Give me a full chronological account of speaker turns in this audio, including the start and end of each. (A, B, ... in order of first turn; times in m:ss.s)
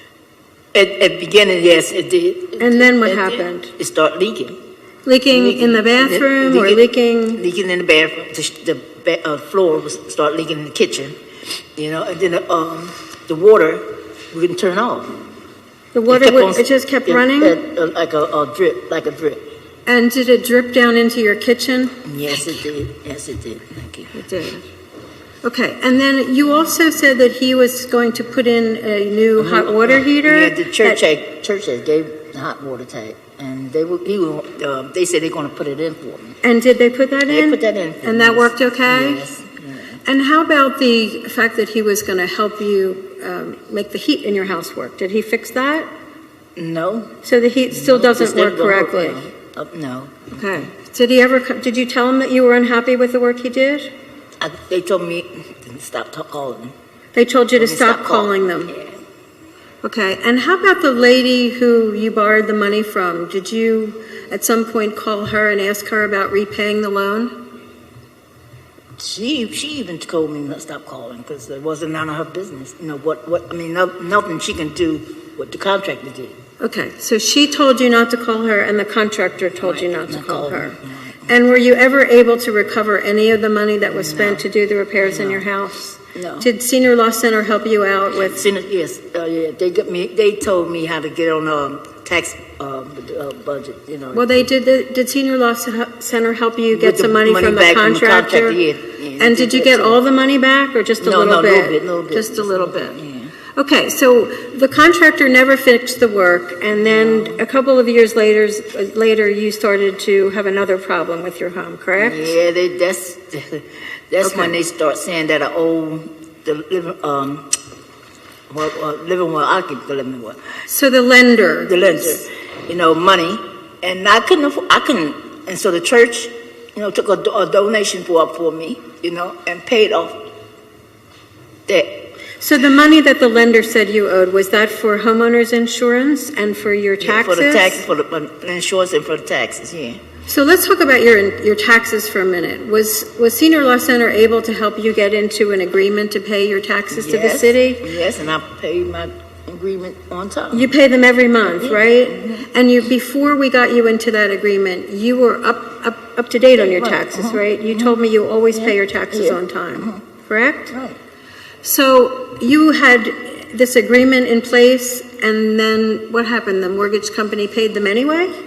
0:00.7-0:04.6 A
0:02.6-0:03.7 B
0:05.0-0:07.4 B
0:05.3-0:11.1 A
0:11.8-0:15.1 A
0:15.9-0:17.6 B
0:16.1-0:19.5 A
0:19.8-0:22.0 B
0:22.0-0:24.1 A
0:24.1-0:24.6 B
0:25.4-0:31.0 B
0:29.4-0:36.4 A
0:36.4-0:39.3 B
0:37.3-0:40.0 A
0:40.0-0:45.9 B
0:46.6-0:50.7 A
0:47.2-0:49.3 B
0:50.3-0:53.9 B
0:54.4-0:56.7 A
0:57.1-0:58.7 B
0:57.6-0:59.0 A
0:59.8-1:07.4 B
1:09.0-1:16.4 A
1:16.6-1:20.8 B
1:19.6-1:21.2 A
1:21.3-1:28.4 B
1:23.8-1:24.4 A
1:25.0-1:25.4 A
1:26.1-1:26.5 A
1:28.2-1:34.3 A
1:34.1-1:38.6 B
1:36.7-1:40.0 A
1:39.2-1:43.0 B
1:41.0-1:43.3 A
1:43.6-1:52.3 B
1:46.7-1:47.4 A
1:52.0-1:57.5 A
1:54.2-1:54.5 B
1:58.5-2:00.4 A
2:00.7-2:02.2 B
2:01.6-2:10.3 A
2:11.7-2:12.0 A
2:12.4-2:17.8 B
2:17.0-2:20.0 A
2:20.3-2:27.9 B
2:26.9-2:30.7 A
2:30.5-2:40.7 B
2:31.4-2:32.5 A
2:36.5-2:38.0 A
2:38.5-2:40.0 A
2:40.7-2:41.0 A
2:41.6-2:48.3 B